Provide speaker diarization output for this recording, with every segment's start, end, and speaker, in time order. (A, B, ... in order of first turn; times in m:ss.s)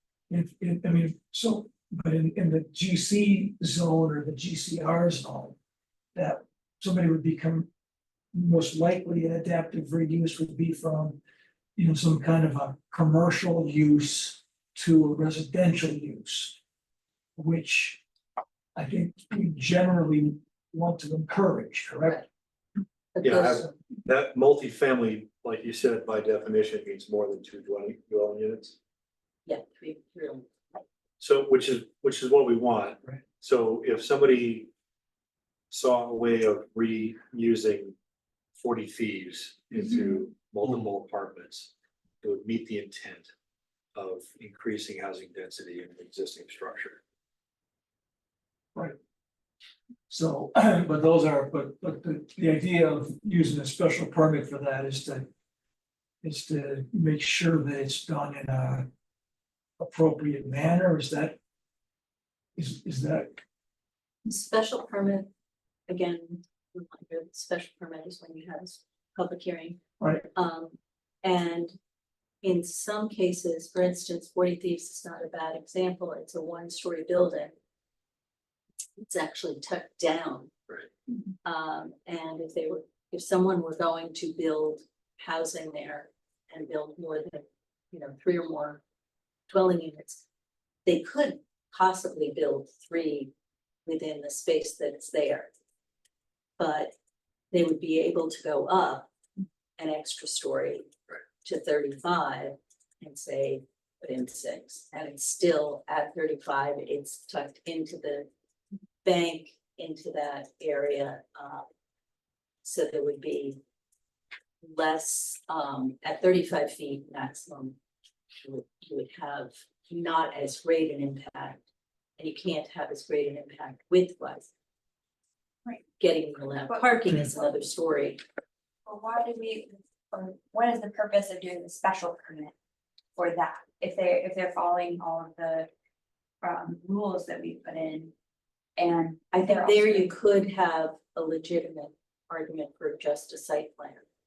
0:00.3-0:05.6 A
0:06.1-0:07.7 A
0:08.3-0:11.2 A
0:11.8-0:16.6 A
0:17.4-0:18.0 A
0:18.7-0:22.2 A
0:23.1-0:23.7 B
0:23.2-0:28.8 C
0:29.4-0:30.5 B
0:31.2-0:34.7 C
0:35.7-0:38.0 C
0:38.6-0:43.3 C
0:43.9-0:47.0 C
0:50.1-0:55.3 A
0:56.2-0:58.9 A
0:59.8-1:01.4 A
1:02.6-1:03.4 A
1:04.2-1:05.3 B
1:05.9-1:09.8 B
1:10.0-1:10.3 A
1:10.3-1:11.8 B
1:12.4-1:17.5 B
1:19.0-1:20.5 B
1:21.4-1:28.8 B
1:29.5-1:30.2 B
1:30.8-1:33.3 B
1:33.8-1:35.5 B
1:36.6-1:36.9 B
1:37.5-1:39.1 B
1:39.8-1:40.9 B
1:41.4-1:48.3 B
1:49.0-1:51.6 B
1:52.6-1:53.6 B
1:54.6-1:57.8 B
1:58.4-2:01.6 B
2:02.2-2:04.5 B
2:06.0-2:08.2 B
2:06.7-2:07.5 D
2:08.8-2:12.5 D
2:13.2-2:15.7 D
2:16.4-2:18.1 D
2:18.8-2:20.1 D
2:19.4-2:24.0 B